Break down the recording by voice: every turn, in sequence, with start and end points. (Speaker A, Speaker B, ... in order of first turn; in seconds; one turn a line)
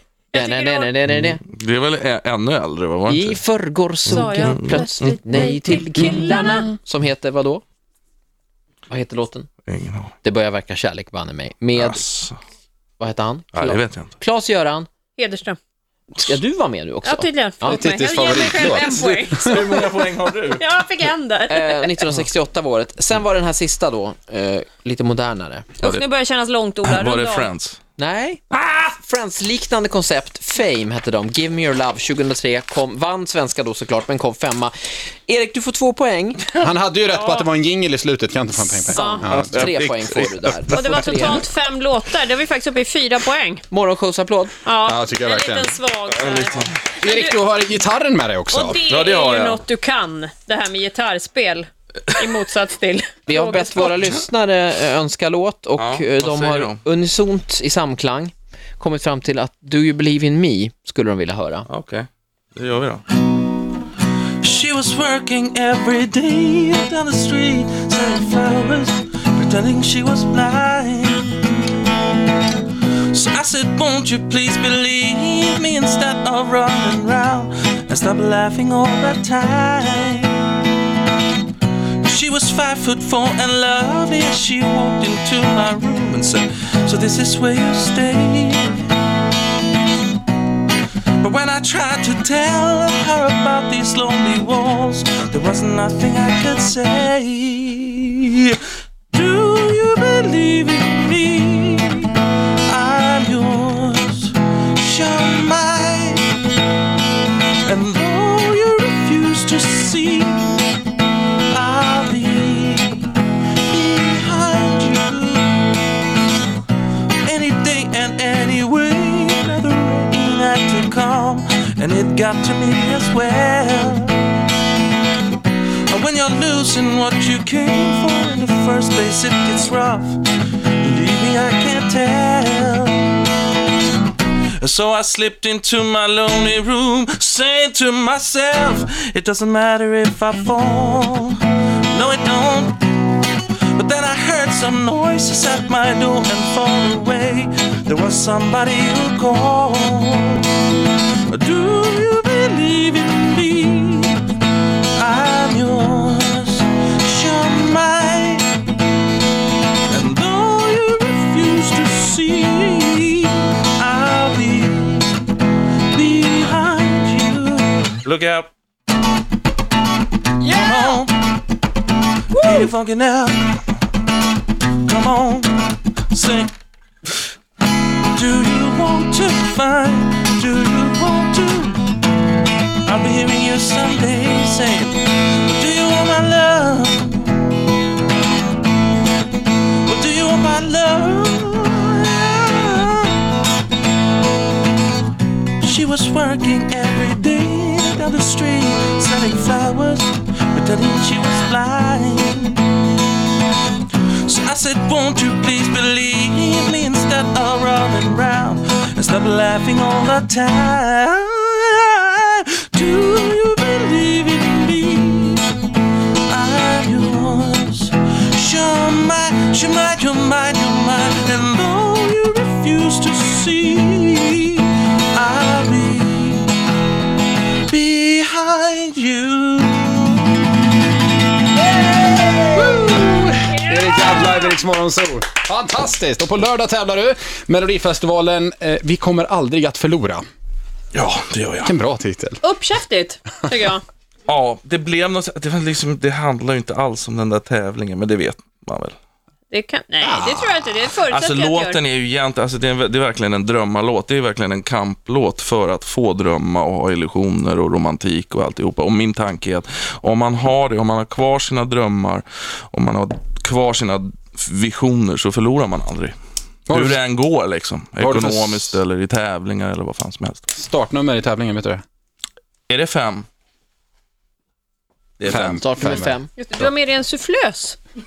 Speaker A: 0.3-0.9
Speaker B: 0.3-1.4
Speaker C: 1.1-3.4
Speaker B: 3.1-7.6
Speaker C: 4.0-5.2
Speaker A: 4.1-6.7
Speaker B: 8.9-9.5
Speaker C: 9.6-10.2
Speaker B: 10.2-12.1
Speaker C: 11.7-12.4
Speaker B: 13.0-14.9
Speaker C: 13.5-14.2
Speaker A: 15.2-15.6
Speaker B: 16.1-17.8
Speaker A: 17.0-19.6
Speaker D: 17.6-19.6
Speaker C: 18.8-20.6
Speaker A: 20.5-22.1
Speaker B: 21.5-25.7
Speaker A: 25.8-27.5
Speaker C: 26.8-27.8
Speaker B: 28.0-34.7
Speaker B: 35.3-36.5
Speaker D: 36.5-39.8
Speaker A: 37.1-37.5
Speaker A: 38.9-39.2
Speaker B: 39.0-41.4
Speaker C: 39.2-41.4
Speaker A: 40.7-43.6
Speaker B: 43.7-44.6
Speaker A: 44.6-47.4
Speaker D: 44.8-45.8
Speaker C: 46.1-46.7
Speaker D: 47.0-48.8
Speaker A: 48.5-53.9
Speaker C: 48.9-49.6
Speaker B: 53.2-61.7
Speaker C: 55.8-56.8
Speaker C: 61.7-63.0
Speaker C: 64.4-71.4
Speaker C: 73.1-80.4
Speaker C: 82.0-88.9
Speaker C: 91.2-98.6
Speaker C: 99.1-106.3
Speaker C: 107.6-110.7
Speaker C: 111.5-115.7
Speaker C: 117.2-124.2
Speaker C: 125.9-130.3
Speaker C: 130.8-133.2
Speaker C: 134.6-143.0
Speaker C: 143.7-150.5
Speaker C: 151.3-154.2
Speaker C: 154.9-158.5
Speaker C: 159.9-165.2
Speaker C: 165.9-168.5
Speaker A: 170.4-170.8
Speaker C: 170.5-171.3
Speaker C: 172.3-173.6
Speaker C: 174.8-176.5
Speaker C: 178.1-181.8
Speaker C: 182.8-187.4
Speaker C: 189.8-193.2
Speaker C: 195.6-202.6
Speaker C: 204.2-215.5
Speaker C: 216.3-226.6
Speaker C: 227.7-230.1
Speaker D: 232.3-240.2
Speaker A: 233.4-234.6
Speaker C: 240.9-241.8
Speaker D: 241.6-242.4
Speaker A: 242.4-243.8
Speaker C: 244.3-248.9
Speaker A: 249.5-251.8
Speaker D: 250.0-250.5
Speaker C: 251.0-266.1
Speaker D: 266.7-267.0
Speaker C: 266.7-270.4
Speaker D: 268.0-268.8
Speaker D: 270.5-271.8
Speaker C: 272.7-273.2
Speaker C: 275.2-275.6
Speaker D: 275.2-276.1
Speaker B: 275.6-276.3
Speaker A: 276.4-277.8